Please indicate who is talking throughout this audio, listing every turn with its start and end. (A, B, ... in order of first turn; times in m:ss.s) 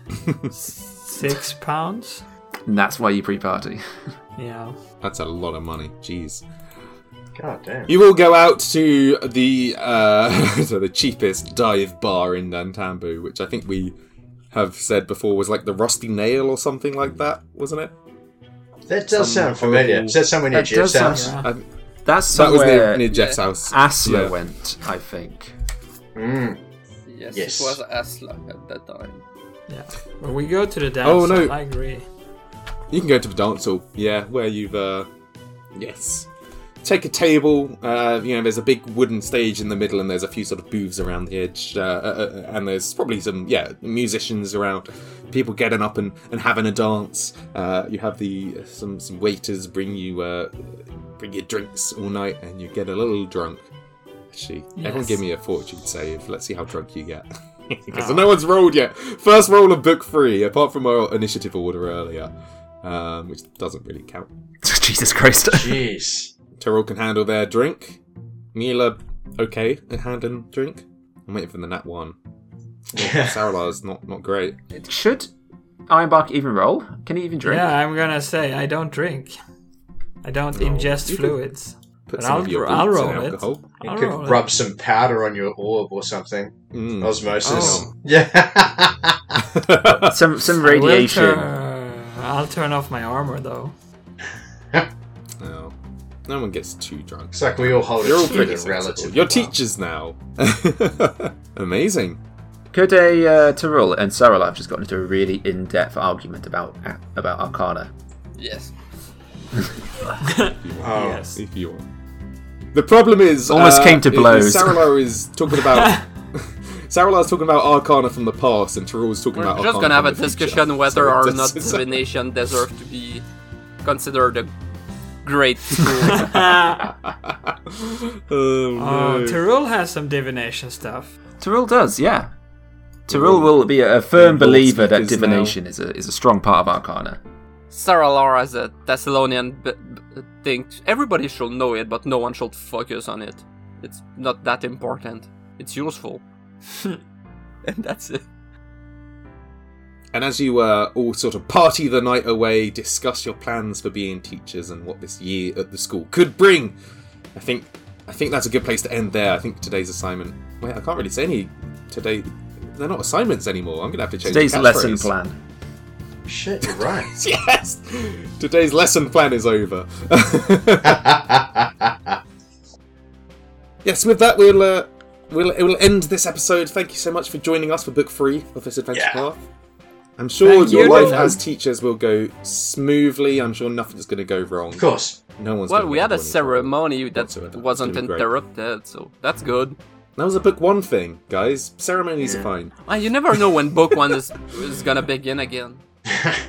0:00.5-0:02.3 A
0:02.7-0:03.8 B
0:04.4-0:04.8 A
0:05.0-0:06.4 C
0:07.4-0:07.9 D
0:07.9-0:14.0 C
0:14.5-0:17.9 C
0:18.9-0:21.3 D
0:19.1-0:20.2 C
0:20.5-0:21.4 B
0:21.1-0:21.5 A
0:22.0-0:25.6 B
0:22.3-0:24.3 C
0:23.1-0:23.4 E
0:26.2-0:26.6 D
0:27.1-0:29.2 E
0:27.3-0:27.8 D
0:29.7-0:32.1 A
0:31.0-0:31.6 C
0:32.9-0:35.1 C
0:35.8-0:36.3 C
0:36.8-0:53.7 C
0:54.3-1:02.3 C
0:54.8-0:55.2 A
0:57.9-0:58.4 A
1:02.8-1:04.3 C
1:04.6-1:05.8 B
1:05.5-1:06.3 D
1:06.6-1:08.0 C
1:08.5-1:12.2 C
1:12.9-1:14.6 C
1:13.0-1:13.4 D
1:14.7-1:15.3 B
1:15.9-1:17.7 B
1:17.4-1:19.4 A
1:20.2-1:24.4 A
1:20.5-1:21.4 C
1:22.1-1:23.7 C
1:23.8-1:29.4 D
1:26.7-1:27.9 C
1:27.4-1:27.9 A
1:29.5-1:30.2 C
1:30.0-1:31.5 B
1:30.6-1:33.7 A
1:35.4-1:35.8 C
1:36.3-1:42.2 C
1:37.3-1:39.5 D
1:42.7-1:47.9 B
1:48.4-1:48.8 E
1:50.2-1:51.4 A
1:50.5-1:51.9 C
1:50.8-1:51.2 D
1:52.7-2:02.0 C
1:53.5-1:54.9 B
1:59.4-2:03.2 E
2:03.8-2:04.5 E
2:05.2-2:06.4 E
2:06.2-2:06.8 A
2:07.2-2:09.4 C
2:08.8-2:11.2 A
2:11.4-2:12.3 B
2:13.1-2:17.2 B
2:13.1-2:13.5 C
2:14.1-2:15.6 C
2:17.7-2:26.2 E
2:27.6-2:28.2 E
2:30.1-2:36.8 C
2:37.4-2:45.1 C
2:44.3-2:45.4 B
2:46.3-2:47.2 D
2:46.7-2:51.0 C
2:50.9-2:52.2 D
2:53.8-2:59.4 C
2:58.9-2:59.3 D
3:00.2-3:08.3 C
3:00.4-3:01.4 A
3:00.7-3:01.1 E
3:04.8-3:05.2 D
3:05.7-3:09.8 E
3:10.2-3:12.8 C
3:12.8-3:15.8 E